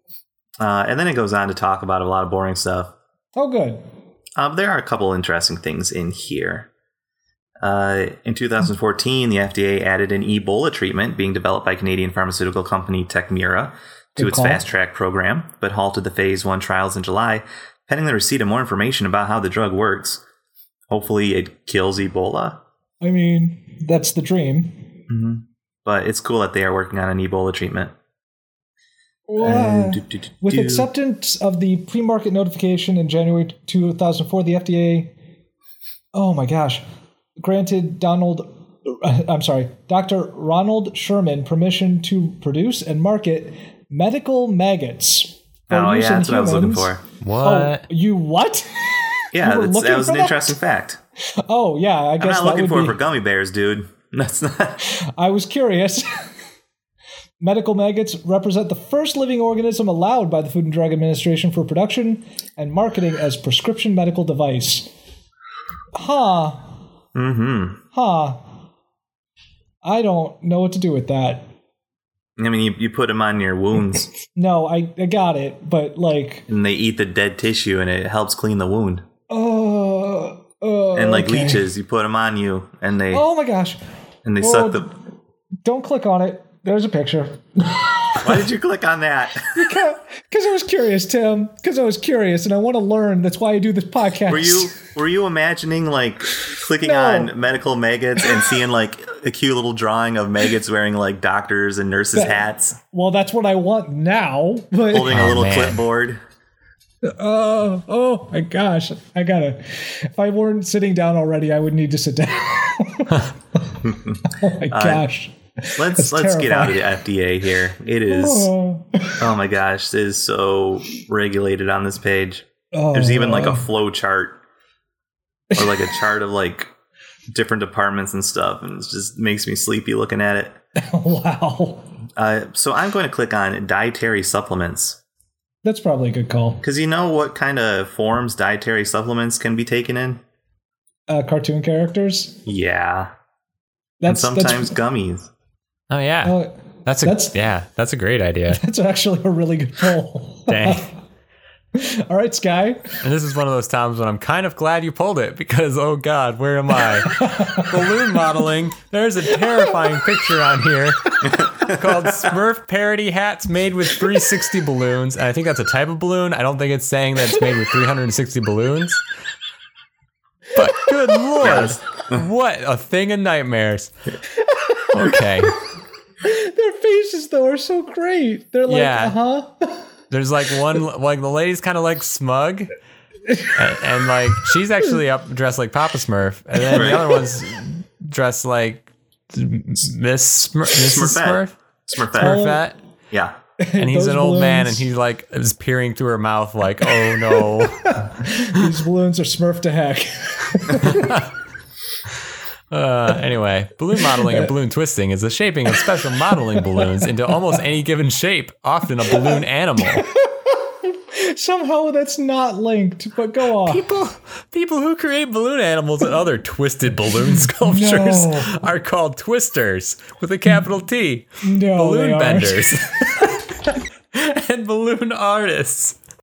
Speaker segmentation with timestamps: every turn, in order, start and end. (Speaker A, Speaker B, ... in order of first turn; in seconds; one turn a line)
Speaker A: 0.6-2.9
Speaker B: 3.4-3.8
Speaker A: 4.4-6.7
Speaker A: 7.6-20.2
Speaker B: 14.2-14.6
Speaker A: 20.9-22.6
Speaker B: 23.0-24.9
Speaker A: 25.1-27.9
Speaker B: 29.3-35.1
Speaker A: 29.4-30.9
Speaker B: 36.1-36.8
Speaker B: 37.4-50.6
Speaker A: 45.7-47.0
Speaker C: 47.2-47.9
Speaker A: 49.3-51.0
Speaker B: 51.4-53.0
Speaker A: 52.2-54.9
Speaker B: 54.9-56.3
Speaker B: 57.4-64.9
Speaker B: 65.9-66.7
Speaker A: 67.2-67.8
Speaker B: 67.9-68.4
Speaker B: 69.8-71.5
Speaker A: 72.4-74.1
Speaker B: 74.3-76.5
Speaker A: 76.5-79.0
Speaker B: 79.3-81.7
Speaker A: 81.0-83.2
Speaker B: 83.1-83.8
Speaker A: 84.2-84.9
Speaker B: 84.4-84.9
Speaker B: 85.6-88.4
Speaker A: 88.2-89.6
Speaker B: 89.5-94.8
Speaker A: 94.3-102.8
Speaker B: 96.8-97.3
Speaker B: 102.2-105.2
Speaker A: 104.9-106.2
Speaker C: 105.1-105.8
Speaker B: 107.0-116.8
Speaker A: 113.8-115.1
Speaker A: 115.7-118.5
Speaker B: 118.1-119.2
Speaker A: 119.2-124.4
Speaker B: 122.7-123.7
Speaker A: 125.5-126.7
Speaker A: 127.3-130.6
Speaker B: 130.8-131.9
Speaker A: 132.2-135.0
Speaker B: 135.6-136.6
Speaker A: 136.6-140.2
Speaker B: 141.1-142.4
Speaker A: 142.4-143.1
Speaker B: 144.0-144.8
Speaker A: 144.1-145.3
Speaker C: 145.9-148.6
Speaker B: 146.2-147.3
Speaker B: 148.5-150.9
Speaker C: 150.5-150.9
Speaker B: 151.7-153.0
Speaker C: 153.0-169.0
Speaker B: 157.1-157.8
Speaker A: 161.5-161.8
Speaker C: 170.6-173.9
Speaker A: 171.4-172.2
Speaker B: 174.4-175.6
Speaker C: 174.9-175.6
Speaker B: 176.2-179.9
Speaker C: 178.7-179.2
Speaker C: 180.1-182.7
Speaker B: 183.3-183.6
Speaker C: 183.5-191.6
Speaker A: 186.7-187.1
Speaker A: 190.7-192.4
Speaker C: 192.1-192.8
Speaker B: 192.2-192.7
Speaker B: 193.6-194.9
Speaker C: 193.8-198.7
Speaker B: 197.3-201.2
Speaker C: 200.8-201.3
Speaker C: 202.7-210.1
Speaker B: 204.1-204.5
Speaker B: 206.3-207.1
Speaker B: 209.2-213.8
Speaker C: 213.6-223.5
Speaker B: 217.6-218.7
Speaker B: 221.4-222.9
Speaker C: 224.1-226.0